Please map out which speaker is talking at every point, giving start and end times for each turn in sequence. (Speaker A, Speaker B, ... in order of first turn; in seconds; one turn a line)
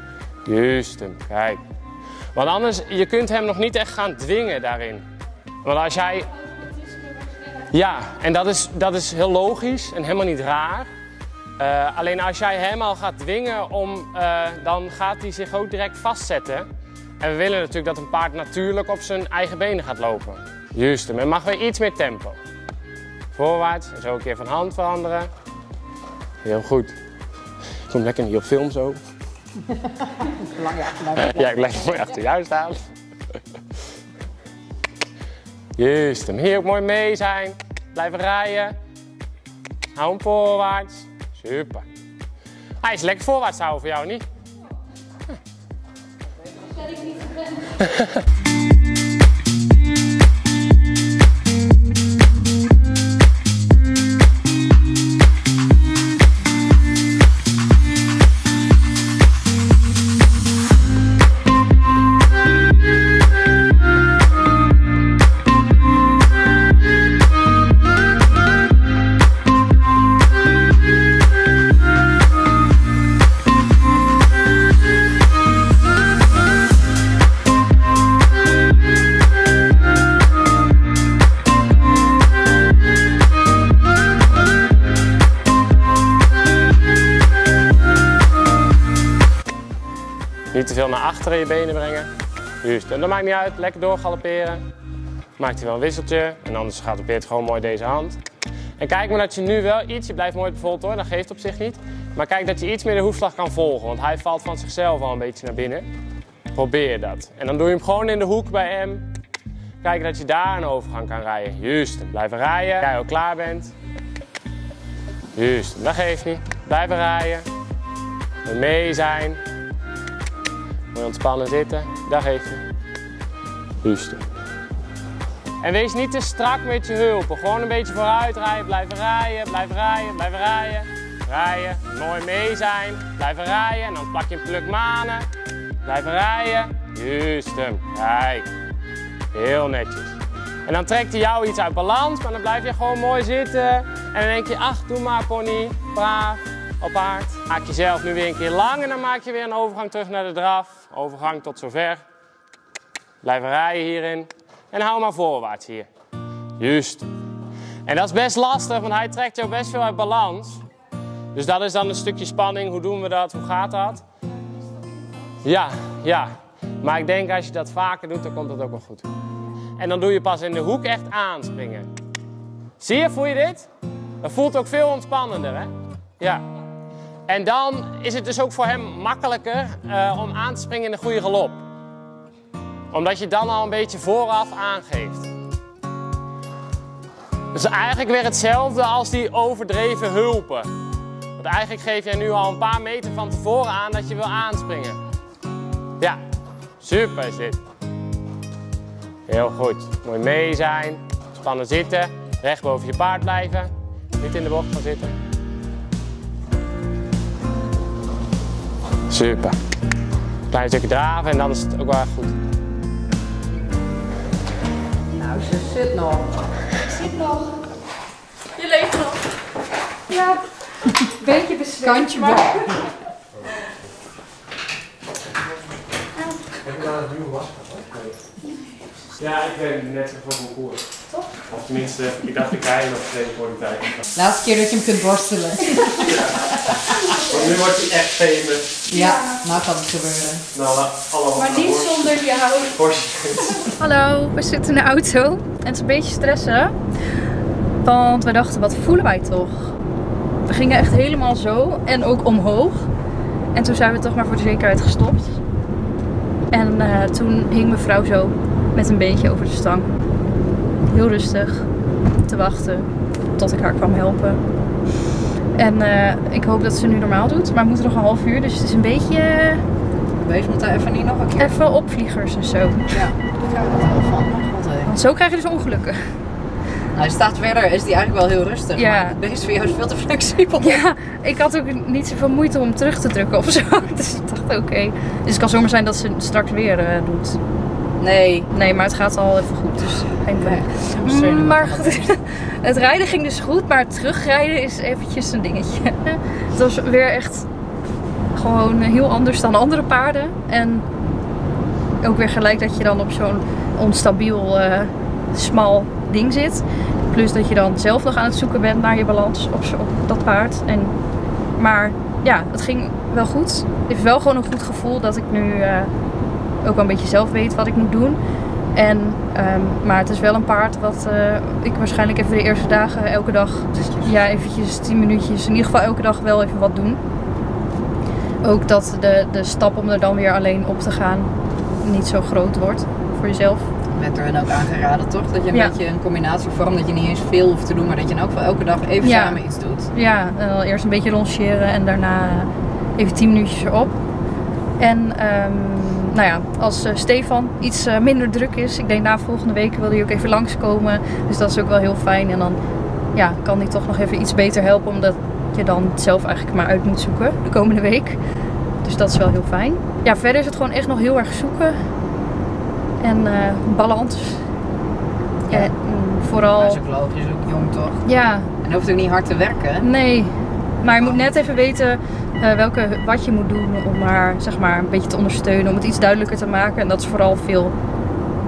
Speaker A: 0.5-1.6
Speaker A: 2.3-5.0
Speaker A: 5.6-6.3
Speaker A: 7.7-10.9
Speaker A: 11.6-16.7
Speaker A: 17.2-22.4
Speaker A: 23.4-25.3
Speaker A: 26.4-26.9
Speaker A: 27.9-29.0
Speaker B: 30.3-31.6
Speaker A: 31.2-32.8
Speaker A: 35.8-38.8
Speaker A: 40.0-41.9
Speaker A: 42.8-44.2
Speaker A: 47.8-48.1
Speaker A: 90.5-92.1
Speaker A: 92.6-94.6
Speaker A: 95.4-98.2
Speaker A: 98.8-105.9
Speaker A: 106.5-109.0
Speaker A: 109.8-113.7
Speaker A: 115.3-117.5
Speaker A: 118.5-119.4
Speaker A: 120.9-122.6
Speaker A: 123.8-124.2
Speaker A: 125.6-135.3
Speaker A: 135.8-138.5
Speaker A: 139.3-152.0
Speaker A: 153.2-155.9
Speaker A: 156.6-157.1
Speaker A: 157.8-160.7
Speaker A: 161.3-164.0
Speaker A: 165.4-169.1
Speaker A: 169.8-171.9
Speaker A: 172.8-173.7
Speaker A: 174.2-176.4
Speaker A: 177.3-181.7
Speaker A: 182.9-185.3
Speaker A: 187.5-190.7
Speaker A: 191.4-195.0
Speaker A: 196.8-197.6
Speaker A: 199.3-205.2
Speaker A: 209.1-209.6
Speaker A: 210.5-212.4
Speaker B: 215.2-216.3
Speaker C: 216.9-217.6
Speaker C: 218.6-219.2
Speaker C: 220.1-222.9
Speaker B: 221.8-222.9
Speaker A: 226.6-228.2
Speaker A: 229.2-230.9
Speaker A: 231.5-234.1
Speaker B: 234.2-236.3
Speaker A: 236.2-238.8
Speaker B: 238.9-240.5
Speaker C: 238.9-239.4
Speaker A: 240.5-242.1
Speaker C: 241.4-242.8
Speaker A: 242.8-243.7
Speaker C: 243.5-246.8
Speaker C: 247.8-249.8
Speaker C: 250.5-252.9
Speaker C: 253.5-255.4
Speaker C: 256.5-259.9
Speaker C: 260.9-261.7
Speaker C: 262.3-264.4
Speaker C: 265.6-269.6
Speaker B: 270.2-271.6
Speaker C: 271.4-273.0
Speaker B: 272.9-274.9
Speaker C: 274.9-276.1
Speaker B: 276.9-280.8
Speaker C: 278.8-279.2
Speaker C: 280.6-287.4
Speaker B: 288.0-288.5
Speaker C: 288.5-297.5
Speaker B: 290.4-292.1
Speaker C: 298.3-300.9
Speaker C: 302.0-311.0
Speaker C: 311.6-315.9
Speaker C: 316.6-318.2
Speaker C: 318.7-327.0
Speaker B: 323.8-324.1
Speaker C: 328.4-333.7
Speaker B: 333.9-339.9
Speaker C: 339.0-339.4
Speaker C: 339.9-344.0
Speaker C: 344.8-352.6
Speaker C: 353.1-358.2
Speaker C: 358.8-361.8
Speaker C: 363.0-364.5
Speaker B: 365.4-365.7
Speaker C: 365.5-366.8
Speaker B: 366.6-368.0
Speaker C: 368.1-368.5
Speaker B: 368.6-369.9
Speaker C: 369.8-377.8
Speaker B: 370.9-371.3